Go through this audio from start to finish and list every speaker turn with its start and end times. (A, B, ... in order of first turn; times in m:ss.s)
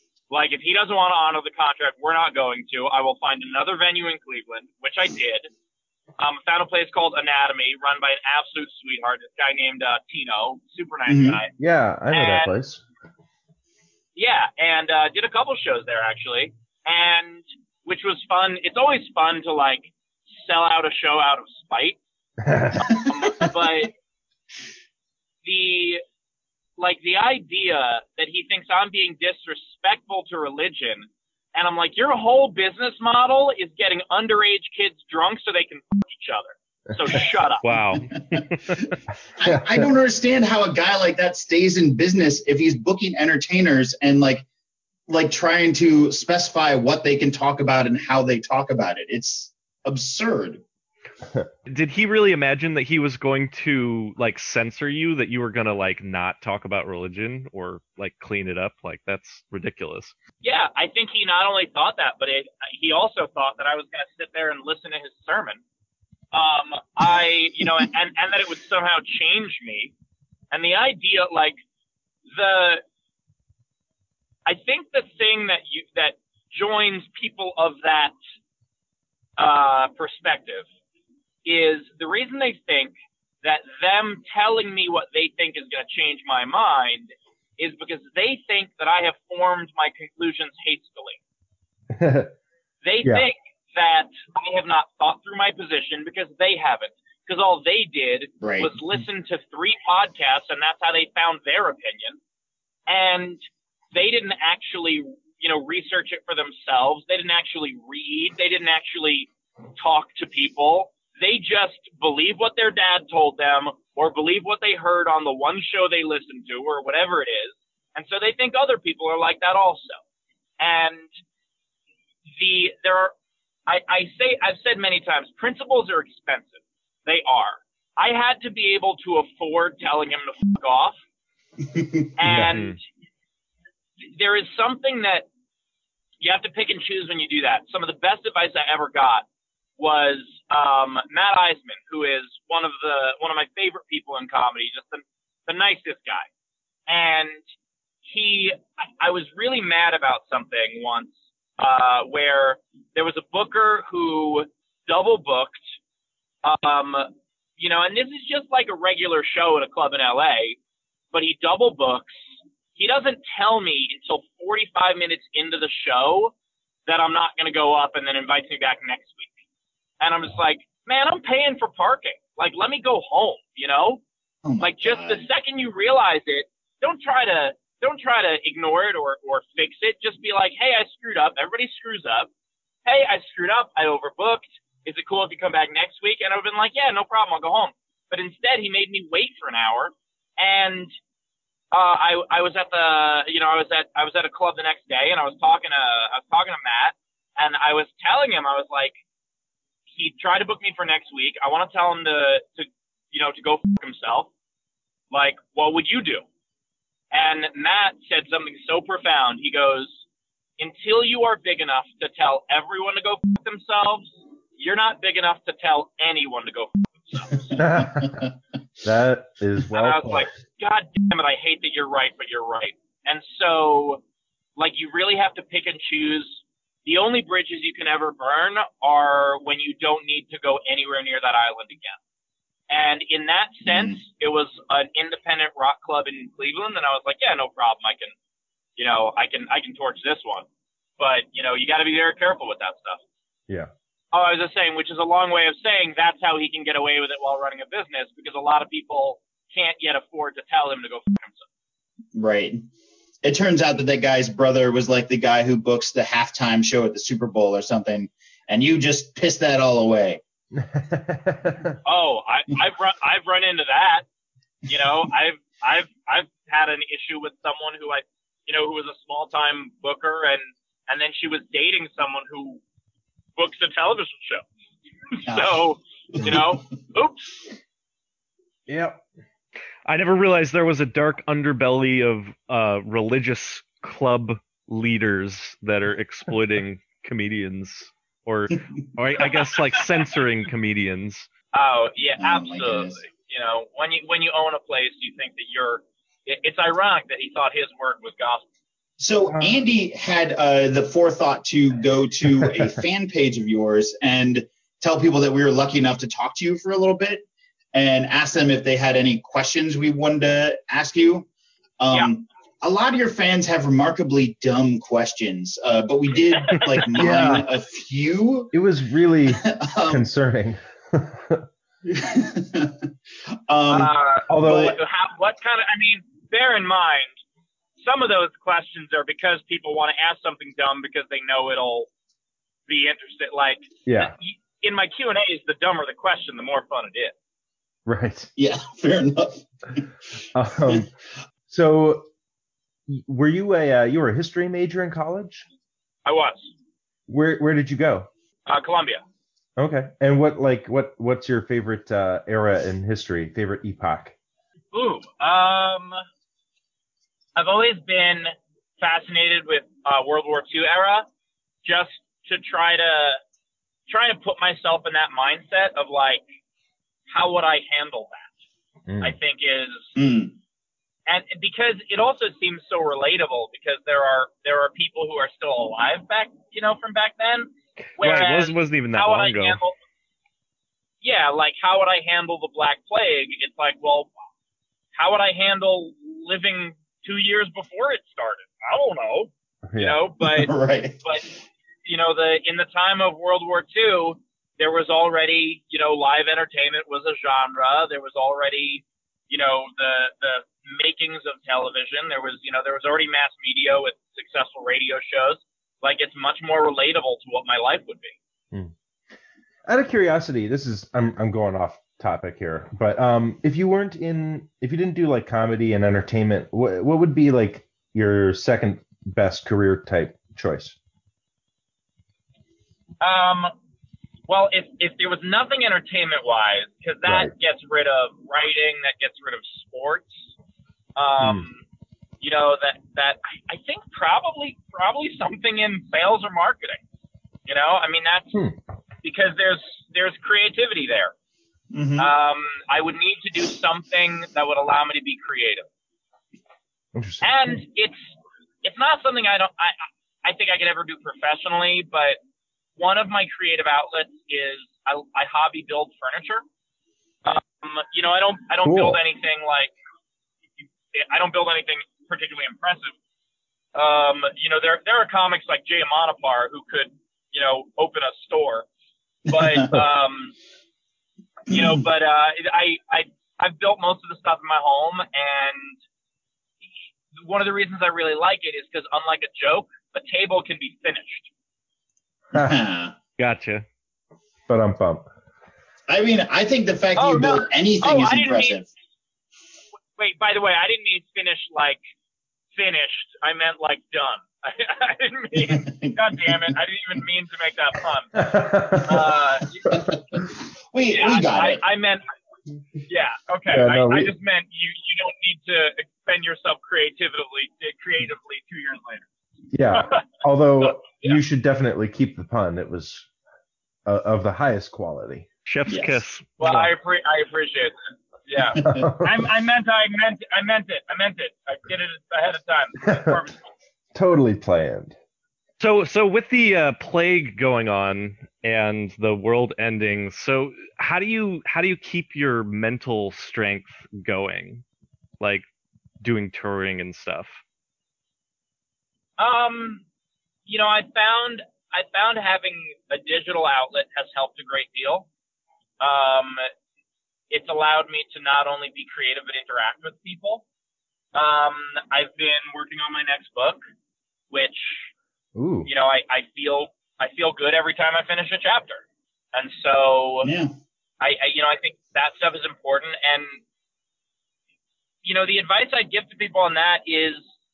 0:00.3-0:05.5 A
0:06.2-0:11.5 A
0:11.1-0:11.4 B
0:11.6-0:12.8 C
0:12.1-0:12.5 A
0:14.2-0:22.0 A
0:22.4-0:22.8 C
0:22.8-0:23.9 A
0:25.4-0:26.0 A
0:26.8-0:37.8 A
0:37.6-0:38.8 D
0:39.4-0:44.4 B
0:45.1-0:50.6 B
0:51.7-1:00.1 D
1:00.4-1:05.6 A
1:06.3-1:09.9 A
1:10.5-1:11.6 A
1:12.4-1:12.8 A
1:14.4-1:18.1 A
1:19.4-1:20.6 A
1:21.4-1:31.2 A
1:31.9-1:32.3 C
1:32.8-1:42.2 A
1:38.4-1:38.7 B
1:42.9-1:43.4 A
1:43.9-2:00.0 A
2:00.6-2:01.1 A
2:02.4-2:03.1 A
2:03.7-2:11.0 A
2:11.7-2:12.1 B
2:12.2-2:12.8 A
2:14.2-2:15.2 A
2:16.2-2:19.2 A
2:19.8-2:26.3 A
2:26.9-2:27.4 A
2:28.0-2:35.6 A
2:36.4-2:40.6 A
2:41.1-2:42.2 A
2:42.8-2:46.3 A
2:46.9-2:49.3 A
2:50.0-2:54.0 A
2:54.4-2:55.2 B
2:54.6-3:02.3 A
3:02.8-3:10.9 A
3:11.7-3:19.0 A
3:20.0-3:24.3 A
3:25.1-3:26.2 A
3:27.1-3:30.0 A
3:30.6-3:37.4 A
3:37.5-3:38.3 B
3:37.6-3:38.2 C
3:38.8-3:40.3 C
3:39.7-3:44.0 A
3:44.6-3:52.0 A
3:52.7-3:58.1 A
3:53.7-3:54.0 B
3:58.8-4:00.4 A
4:01.0-4:03.0 A
4:04.1-4:11.4 A
4:12.1-4:12.6 B
4:13.2-4:20.2 B
4:20.5-4:21.8 C
4:21.8-4:24.0 A
4:24.7-4:32.6 A
4:33.4-4:34.4 A
4:35.1-4:37.3 A
4:35.3-4:35.6 B
4:36.1-4:36.6 B
4:38.7-4:39.0 C
4:39.9-4:51.2 D
4:49.2-4:49.8 A
4:51.5-4:58.4 A
4:52.2-4:53.0 B
4:59.0-5:11.3 B
5:11.8-5:18.5 B
5:16.4-5:16.8 A
5:16.9-5:17.5 C
5:18.5-5:21.4 C
5:19.2-5:20.0 B
5:21.8-5:22.9 B
5:23.5-5:24.8 B
5:23.7-5:27.1 A
5:24.3-5:24.7 C
5:27.8-5:31.9 A
5:32.7-5:37.1 A
5:33.8-5:34.1 C
5:37.8-5:38.3 C
5:38.4-5:39.8 B
5:40.3-5:40.9 C
5:41.5-5:42.0 C
5:42.9-5:45.4 C
5:46.0-5:46.5 A
5:47.1-5:48.1 C
5:48.5-5:49.0 A
5:49.6-5:54.1 C
5:54.7-5:56.0 A
5:57.4-6:01.1 A
6:01.6-6:03.2 A
6:03.9-6:06.2 A
6:07.1-6:08.3 A
6:08.9-6:09.2 C
6:09.0-6:09.9 A
6:10.0-6:10.4 B
6:11.1-6:19.8 A
6:18.0-6:19.6 D
6:21.0-6:24.1 A
6:24.9-6:30.5 A
6:29.7-6:30.0 C
6:30.2-6:31.0 B
6:31.8-6:48.2 A
6:49.6-7:00.8 C
7:03.0-7:03.5 A
7:04.3-7:10.2 A
7:07.0-7:07.3 C
7:11.0-7:11.6 A
7:12.2-7:16.8 A
7:17.5-7:18.4 A
7:19.0-7:21.1 A
7:21.7-7:22.1 B
7:22.0-7:25.6 A
7:26.9-7:27.6 C
7:27.2-7:28.0 A
7:28.6-7:32.2 A
7:32.8-7:36.4 A
7:37.2-7:39.7 A
7:38.6-7:39.0 C
7:40.9-7:42.9 A
7:43.7-7:48.6 A
7:49.3-7:50.3 A
7:51.5-7:55.8 A
7:51.5-7:51.8 B
7:57.2-8:01.3 A
8:02.3-8:02.9 B
8:03.2-8:03.6 D
8:04.5-8:05.0 C
8:05.9-8:08.7 B
8:07.0-8:08.6 A
8:10.0-8:11.8 A
8:12.6-8:18.1 A
8:15.4-8:16.4 B
8:18.1-8:19.0 C
8:18.8-8:19.6 A
8:19.7-8:21.6 B
8:20.9-8:22.0 A
8:22.9-8:29.0 A
8:23.5-8:24.1 C
8:29.5-8:33.1 C
8:29.7-8:30.1 A
8:30.6-8:31.2 A
8:33.8-8:35.3 C
8:35.4-8:36.7 D
8:35.7-8:36.0 B
8:36.4-8:37.7 A
8:38.3-8:43.3 A
8:38.6-8:38.9 B
8:38.6-8:39.1 C
8:42.8-8:43.2 C
8:43.9-8:44.9 C
8:45.6-8:54.6 D
8:55.2-8:55.4 D
8:56.0-8:57.4 D
8:59.2-8:59.8 A
9:00.5-9:05.0 A
9:05.8-9:06.5 A
9:07.3-9:10.4 A
9:11.1-9:13.6 A
9:14.3-9:14.9 A
9:15.4-9:15.7 C
9:15.6-9:18.8 A
9:19.3-9:20.3 A
9:20.2-9:20.5 B
9:21.0-9:23.4 A
9:25.0-9:27.2 A